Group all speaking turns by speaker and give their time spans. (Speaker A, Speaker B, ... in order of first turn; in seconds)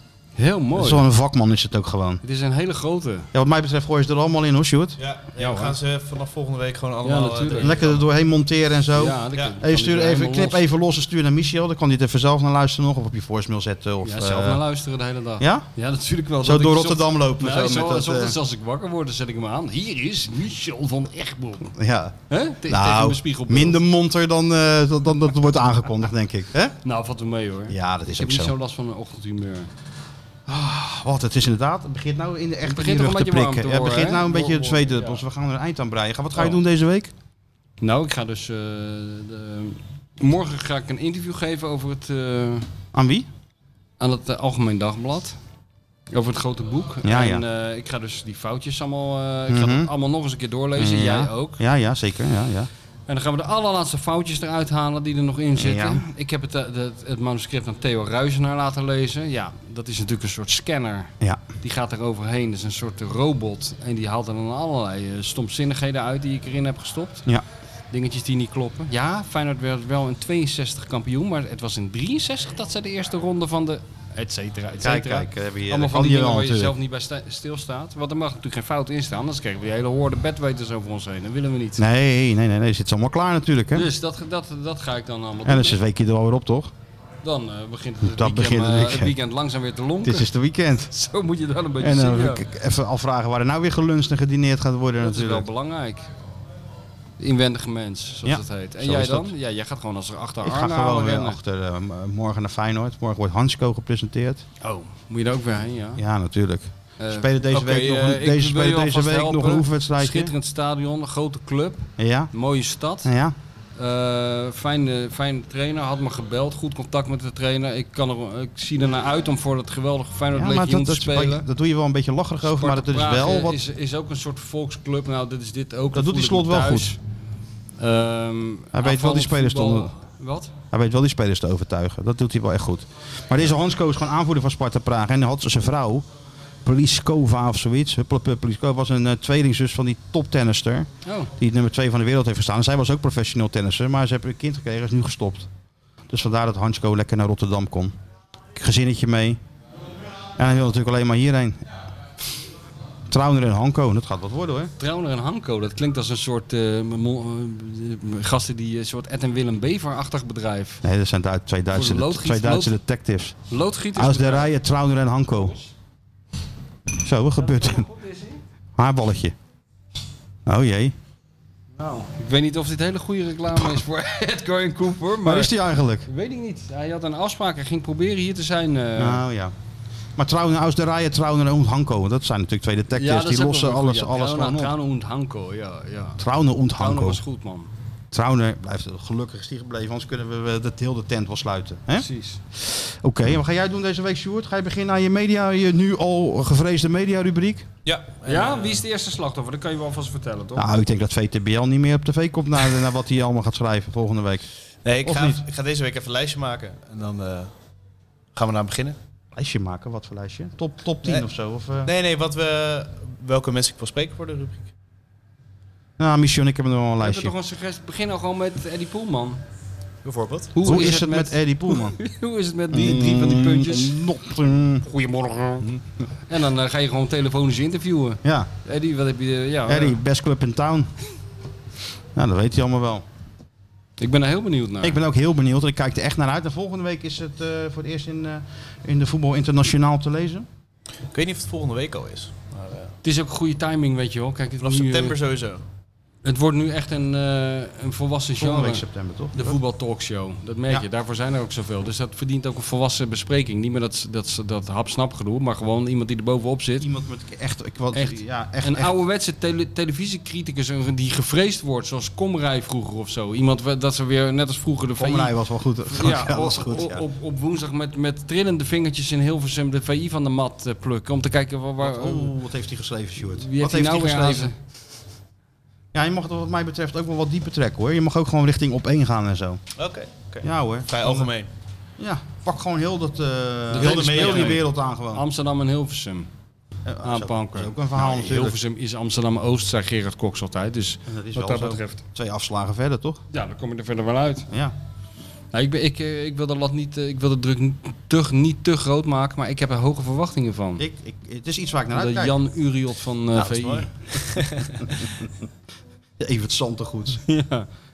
Speaker A: 0.4-1.1, 2.2-3.3, 5.4-5.7, 7.0-7.8, 8.9-10.6, 14.0-21.7, 22.3-23.8, 26.8-29.7, 32.6-35.2, 37.8-42.7, 44.0-45.4, 46.1-51.6, 53.1-67.2, 67.9-81.8, 83.7-85.8, 87.2-90.3, 90.9-92.4, 95.0-96.1, 97.2-101.4, 104.6-106.0, 107.0-113.1, 113.8-121.4, 122.4-127.0, 127.8-130.5, 141.0-141.3, 154.8-160.8, 161.7-162.7, 163.5-164.6, 165.4-165.7, 167.4-168.4, 171.8-175.5, 176.0-179.2, 182.9-186.2, 186.7-187.7, 191.9-192.4, 198.2-200.7, 217.0-219.4, 220.5-224.0, 224.8-225.7, 226.3-230.0, 234.0-235.0, 243.0-245.2, 246.2-256.9, 257.9-265.3, 265.9-272.3, 273.4-274.5, 283.7-286.3, 287.0-292.0, 293.3-294.5, 295.5-300.8, 301.9-303.9, 307.2-307.7
Speaker B: 0.7-2.2, 3.3-5.0, 7.6-14.6, 15.4-15.7, 16.4-18.4, 21.7-26.8, 27.7-28.5, 30.5-37.1, 42.9-43.3, 47.0-47.4, 49.5-49.9, 50.8-52.7, 55.6-56.0, 74.8-76.8, 81.8-83.9, 85.4-86.7, 88.0-89.1, 90.0-90.9, 91.8-95.5, 98.2-99.3, 100.4-104.4, 106.0-110.3, 112.0-112.3, 113.0-113.3, 120.3-123.6, 125.9-126.9, 128.7-129.9, 130.7-136.0, 136.6-145.5, 146.1-147.9, 148.5-149.4, 150.4-151.7, 153.1-154.7, 160.8-163.3, 163.9-165.5, 167.0-167.8, 168.8-169.3, 170.4-170.9, 175.2-176.1, 178.9-179.5, 180.2-184.8, 186.2-187.2, 188.1-197.7, 200.6-204.5, 205.0-205.4, 209.3-211.9, 216.0-217.3, 220.6-222.0, 222.7-224.8, 228.2-228.5, 229.7-230.9, 232.1-233.0, 234.8-240.5, 248.4-249.4, 256.8-258.9, 265.0-267.0, 271.8-274.5, 275.9-279.6, 280.4-281.3, 282.0-285.2, 286.9-288.6, 291.1-293.2, 300.8-302.4, 306.2-307.2
Speaker C: 5.0-8.1, 197.8-198.8, 204.8-207.5, 208.3-209.0, 211.8-214.7, 220.0-220.6, 241.1-242.9, 244.6-245.6, 279.8-281.5, 283.7-284.6, 303.3-304.9